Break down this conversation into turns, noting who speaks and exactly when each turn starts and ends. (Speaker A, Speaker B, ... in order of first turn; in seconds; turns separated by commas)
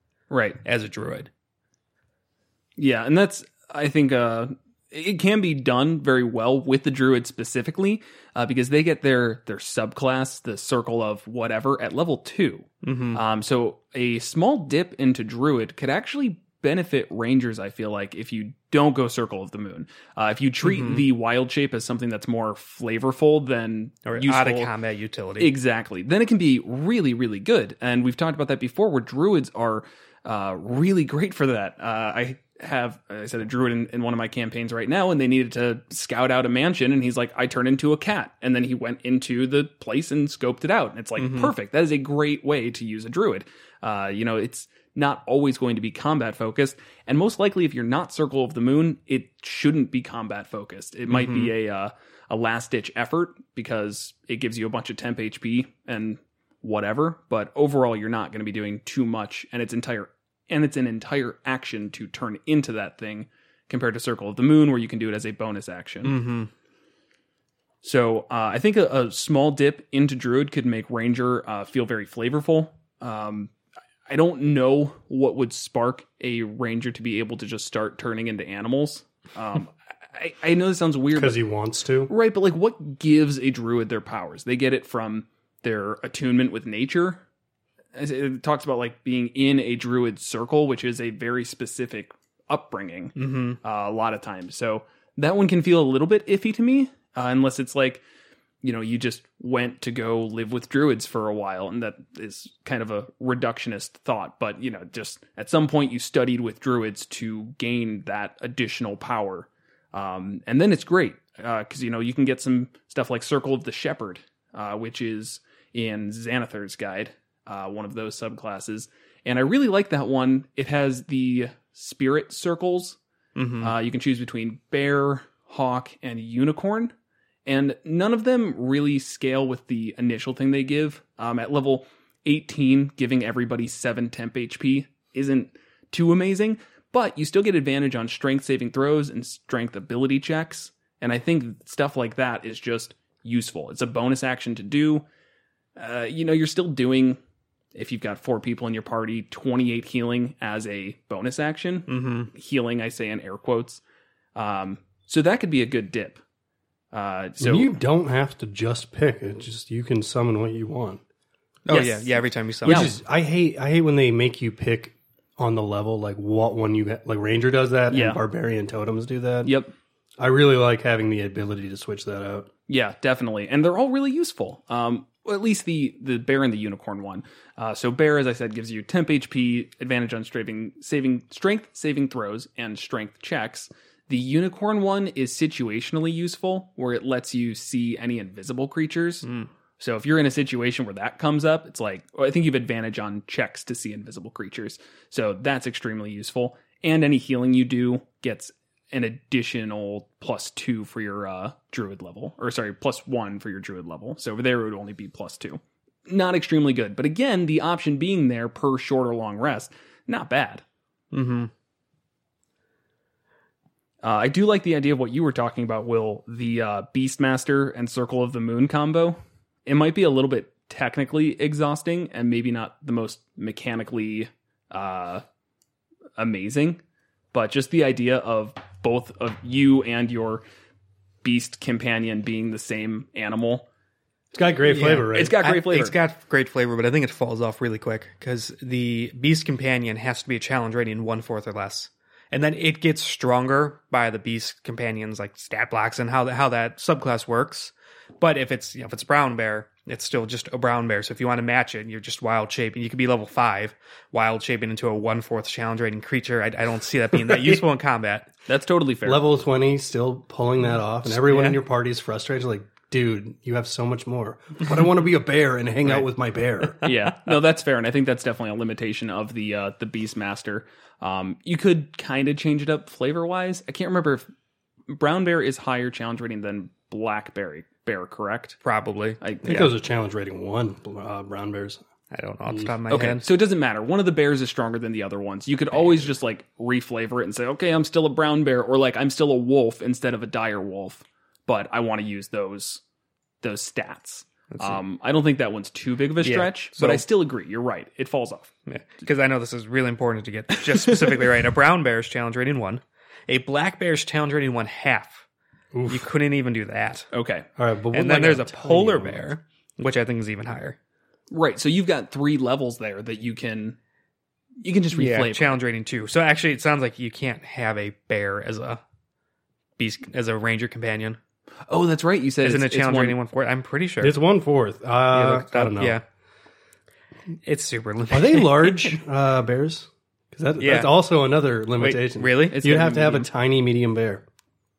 Speaker A: 0.3-0.6, Speaker B: 0.6-1.3, Speaker A: 2.8-24.7, Speaker B: 12.8-13.2, Speaker B: 20.6-21.0, Speaker B: 24.1-25.5, Speaker A: 25.4-66.2, Speaker B: 41.2-41.5, Speaker B: 51.1-51.5, Speaker B: 66.0-66.5, Speaker A: 67.8-73.5, Speaker A: 74.1-81.4, Speaker C: 81.1-82.1, Speaker A: 82.1-87.2, Speaker A: 87.9-98.0, Speaker B: 93.2-93.6, Speaker A: 98.6-123.0, Speaker B: 123.3-123.7, Speaker A: 123.6-126.9, Speaker A: 127.5-145.0, Speaker A: 145.8-147.2, Speaker A: 147.7-153.8, Speaker B: 151.9-152.3, Speaker A: 154.3-156.2, Speaker A: 156.9-157.8, Speaker C: 157.4-161.0, Speaker B: 161.7-162.9, Speaker A: 161.7-162.9, Speaker C: 162.6-169.5, Speaker A: 167.9-168.2, Speaker A: 169.4-169.7, Speaker C: 170.2-172.5, Speaker A: 172.7-189.3, Speaker A: 189.8-210.6, Speaker B: 211.1-211.5, Speaker A: 214.0-225.2, Speaker A: 226.2-226.8, Speaker A: 227.3-230.4, Speaker A: 231.2-233.7, Speaker C: 234.3-235.4, Speaker B: 234.7-258.3, Speaker A: 235.1-235.9, Speaker A: 258.5-259.2, Speaker C: 259.0-266.8, Speaker B: 261.1-261.6, Speaker A: 266.8-274.2, Speaker A: 274.9-278.6, Speaker B: 278.6-279.6, Speaker A: 279.2-279.7, Speaker C: 279.4-281.8, Speaker B: 282.1-283.2, Speaker A: 282.9-292.8, Speaker A: 293.4-298.5, Speaker B: 294.5-294.8, Speaker B: 296.2-297.0, Speaker B: 298.7-305.2, Speaker A: 300.6-301.4, Speaker C: 305.7-306.1, Speaker B: 305.9-307.1, Speaker A: 307.1-307.4, Speaker C: 307.6-309.2, Speaker B: 307.9-310.8, Speaker A: 311.3-313.8, Speaker A: 314.6-315.6, Speaker B: 314.9-318.8, Speaker B: 319.8-321.2, Speaker A: 321.7-323.2, Speaker B: 322.4-324.2, Speaker C: 324.0-326.0, Speaker B: 325.1-326.0, Speaker B: 327.4-328.9, Speaker C: 328.1-334.2, Speaker B: 330.6-330.9, Speaker B: 331.8-332.6, Speaker A: 332.5-333.3